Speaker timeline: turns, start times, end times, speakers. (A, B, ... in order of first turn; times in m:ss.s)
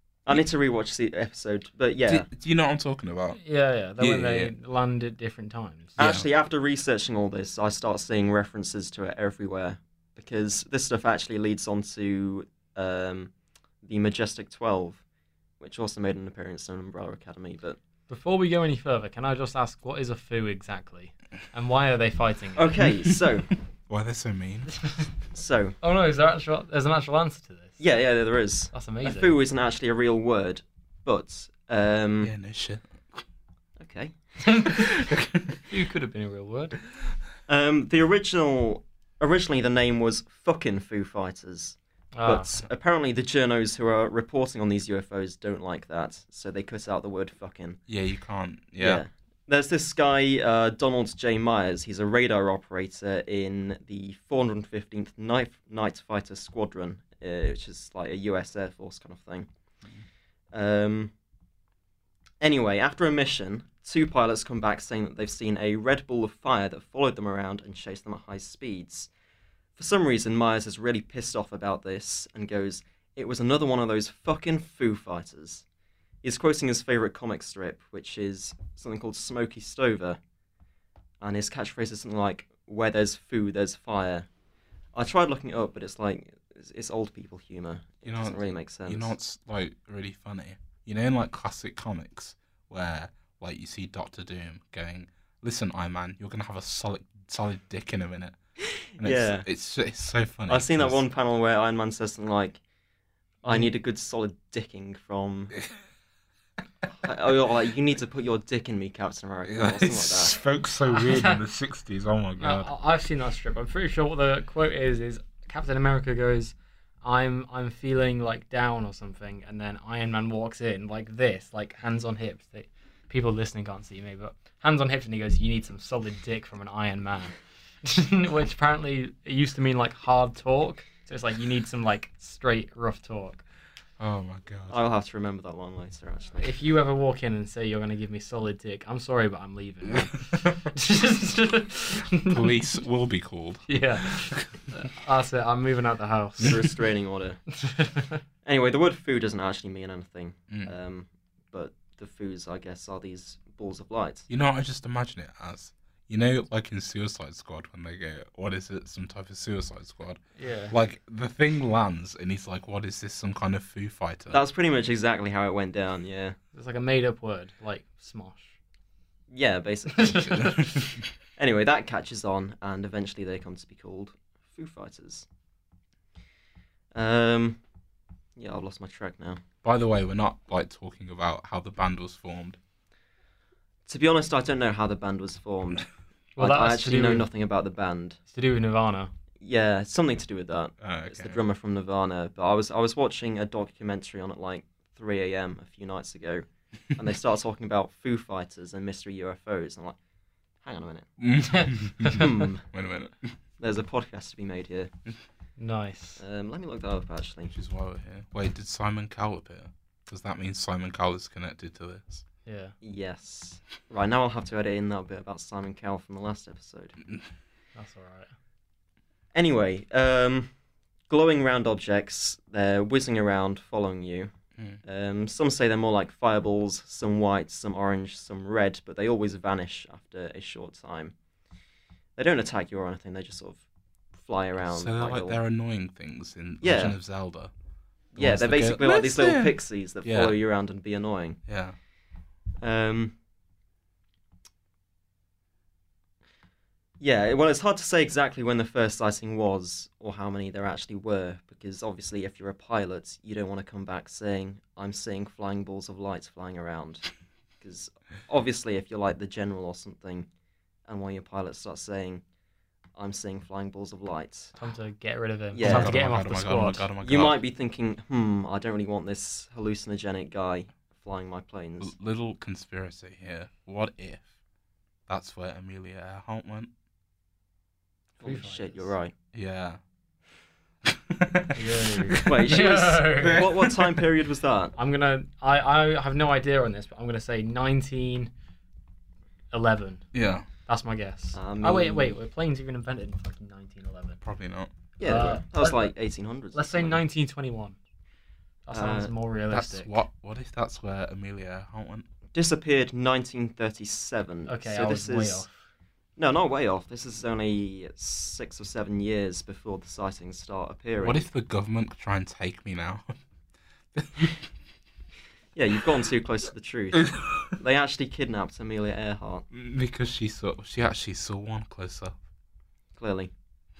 0:00.3-0:02.3 A
0:02.1-0:03.4 B
0:03.3-0:06.0 C
0:04.0-0:04.5 B
0:06.0-0:13.3 A
0:06.0-0:06.3 B
0:13.8-0:15.0 A
0:15.6-0:17.8 A
0:18.1-0:22.7 C
0:22.6-0:23.5 A
0:22.8-0:23.2 B
0:23.9-0:24.7 B
0:24.8-0:25.1 C
0:25.3-0:25.8 A
0:25.8-0:27.8 C
0:27.8-0:32.3 A
0:28.7-0:29.4 C
0:32.2-0:32.9 B
0:33.8-0:34.2 A
0:34.4-0:35.1 C
0:35.1-0:35.4 B
0:35.6-0:36.8 C
0:37.5-0:47.8 A
0:42.2-0:42.6 C
0:47.9-0:49.0 B
0:48.8-0:59.5 A
1:00.5-1:01.1 A
1:02.4-1:09.1 A
1:09.8-1:15.6 A
1:16.2-1:20.2 A
1:21.2-1:24.3 A
1:25.0-1:29.1 A
1:28.0-1:38.4 B
1:39.0-1:41.0 B
1:39.0-1:39.5 A
1:40.5-1:42.6 A
1:43.4-1:45.6 A
1:43.5-1:43.7 C
1:47.0-1:50.4 A
1:49.5-1:52.7 B
1:50.9-1:51.4 C
1:52.4-2:13.4 C
2:14.0-2:14.8 B
2:14.7-2:16.6 A
2:16.4-2:22.7 C
2:20.3-2:20.7 B
2:22.3-2:24.5 B
2:23.7-2:26.6 C
2:26.4-2:27.4 A
2:27.6-2:28.2 C
2:28.4-2:34.3 A
2:34.3-2:44.4 B
2:40.4-2:40.8 C
2:44.3-2:46.4 A
2:46.5-2:48.6 C
2:49.3-2:50.8 A
2:50.0-2:51.1 B
2:51.4-2:55.3 A
2:56.9-2:57.6 A
2:58.4-2:59.4 A
2:59.6-3:02.6 B
3:03.9-3:08.2 A
3:06.4-3:07.3 C
3:08.3-3:09.1 C
3:09.4-3:20.0 A
3:10.8-3:11.4 B
3:20.6-3:21.1 A
3:21.2-3:23.4 B
3:21.4-3:22.3 C
3:22.0-3:22.6 A
3:23.6-3:24.9 A
3:25.6-3:26.2 C
3:26.2-3:27.5 A
3:27.5-3:32.2 B
3:32.5-3:32.7 C
3:32.8-3:37.0 A
3:37.8-3:38.3 C
3:39.3-3:40.5 A
3:41.1-3:44.3 A
3:44.8-3:51.1 A
3:52.2-3:53.6 A
3:54.2-3:55.4 A
3:54.6-3:57.5 B
3:56.6-3:57.0 A
3:58.2-4:01.4 A
3:58.2-4:00.4 B
4:01.5-4:01.8 B
4:02.6-4:03.2 A
4:07.0-4:17.1 A
4:17.6-4:20.3 A
4:20.9-4:22.2 A
4:23.0-4:24.6 A
4:24.6-4:26.8 C
4:25.5-4:26.0 A
4:25.6-4:27.4 B
4:27.0-4:31.9 A
4:31.8-4:34.2 B
4:35.1-4:36.7 B
4:38.2-4:38.9 C
4:38.2-4:39.1 A
4:39.3-4:39.8 B
4:40.8-4:44.0 B
4:41.5-4:43.4 C
4:42.2-4:44.8 A
4:44.8-4:48.3 C
4:49.5-4:50.0 C
4:50.1-4:50.5 B
4:50.7-4:54.2 C
4:51.3-4:52.2 A
4:54.2-4:55.4 B
4:55.0-4:57.0 A
4:55.0-4:55.9 C
4:56.5-4:57.8 C
4:58.7-4:59.9 C
4:58.7-4:59.1 A
4:59.5-5:02.0 B
5:02.3-5:05.5 A
5:04.5-5:05.5 C
5:06.2-5:11.3 A
5:11.0-5:13.0 B
5:13.9-5:14.4 B
5:15.6-5:19.5 A
5:17.1-5:17.5 B
5:19.5-5:22.2 B
5:23.0-5:23.3 A